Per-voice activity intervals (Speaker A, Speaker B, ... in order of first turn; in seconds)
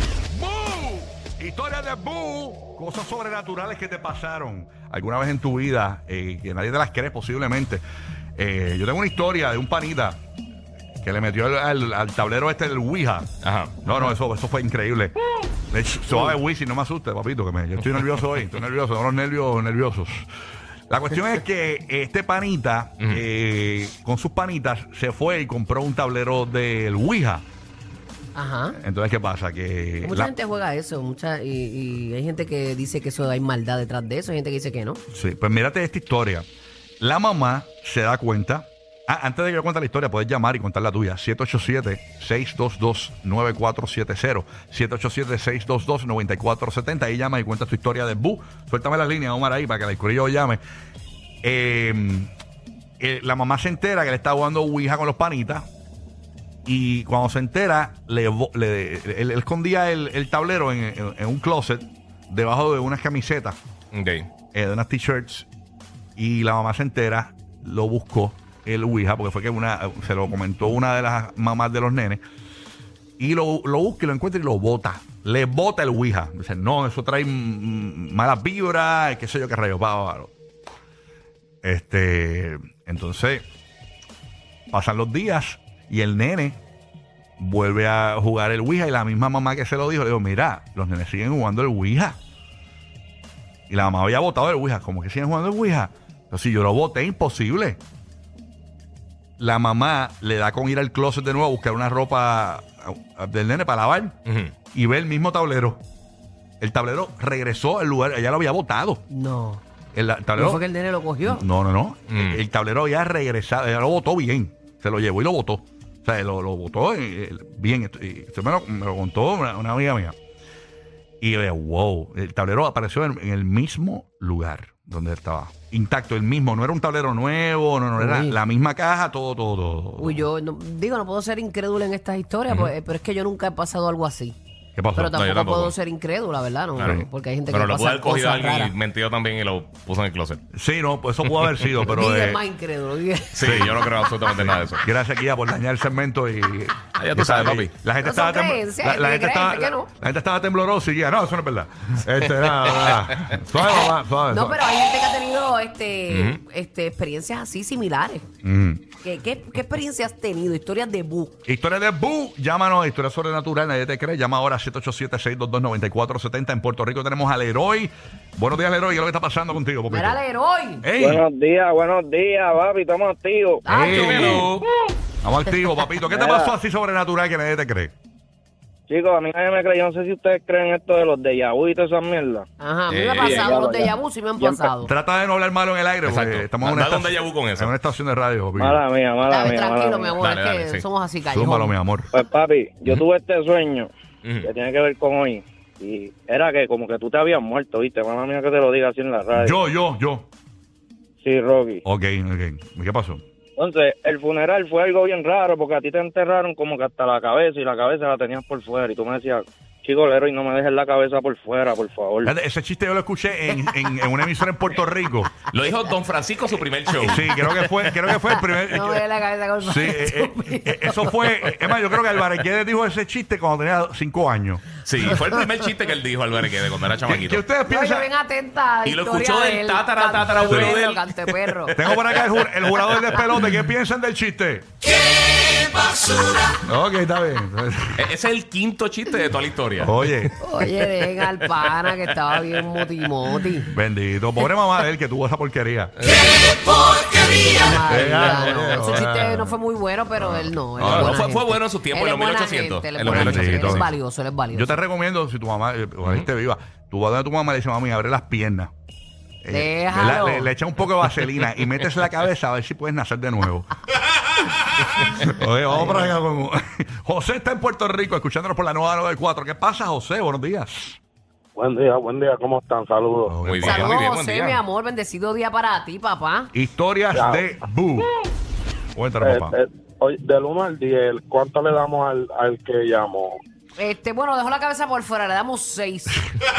Speaker A: 0.3-7.8, 8.4-10.2, 11.0-13.3, 13.8-15.1, 15.7-20.3, 20.9-27.4, 28.7-30.3, 35.1-36.5, 37.0-50.6, 51.4-52.3, 53.0-55.6, 56.6-63.6, 64.5-65.5, 66.2-72.2, 73.2-80.3, 81.6-83.4, 84.7-86.6, 87.4-92.2, 93.7-97.8, 99.4-104.1, 104.7-105.8, 106.6-109.0, 109.9-110.6, 111.2-120.1, 121.2-130.3, 134.8-135.1, 136.8-137.1, 140.5-142.4, 143.4-154.6, 158.4-158.8, 161.4-170.2, 170.8-171.2, 173.7-174.4, 175.2-177.9, 184.8-188.8, 191.2-192.1, 199.3-200.2, 201.8-203.2, 212.2-215.3, 217.0-219.0, 219.6-224.7, 227.0-228.1, 230.5-230.8, 231.7-234.7, 236.6-238.1, 239.8-240.3, 243.7-245.9, 247.8-249.6, 250.2-251.2, 253.1-253.9, 254.5-258.7, 259.4-263.7, 264.3-271.0, 273.3-273.9, 276.5-278.1, 278.9-279.5
Speaker B: 13.4-14.1, 63.9-64.3, 104.2-104.5, 112.1-112.4, 132.5-132.7, 135.1-135.7, 136.8-140.4, 141.3-141.5, 143.3-144.8, 146.9-147.7, 152.7-153.2, 156.1-156.4, 173.7-174.6, 182.9-183.6, 186.0-187.7, 190.2-190.8, 194.2-194.5, 215.5-217.3, 224.8-227.4, 228.8-233.4, 235.3-236.5, 238.0-240.3, 246.0-247.1, 250.8-253.9, 273.4-274.6
Speaker C: 28.3-28.8, 30.0-35.0, 109.1-109.6, 110.3-111.5, 128.0-128.4, 130.0-134.4, 134.9-138.7, 141.9-143.4, 148.0-149.9, 154.3-158.3, 159.0-161.3, 169.9-170.8, 173.7-174.5, 182.6-184.9, 189.2-191.8, 218.5-221.2, 227.7-231.7, 240.4-243.7, 247.3-254.8, 259.5-260.5, 265.7-266.1, 273.6-276.5, 283.8-286.2
Speaker D: 171.0-173.6, 176.1-176.5, 178.9-182.4, 183.2-184.7, 188.6-190.2, 192.1-193.9, 194.4-199.6, 201.2-201.8, 203.6-212.3
Speaker E: 271.5-273.3, 277.1-277.5, 279.2-283.4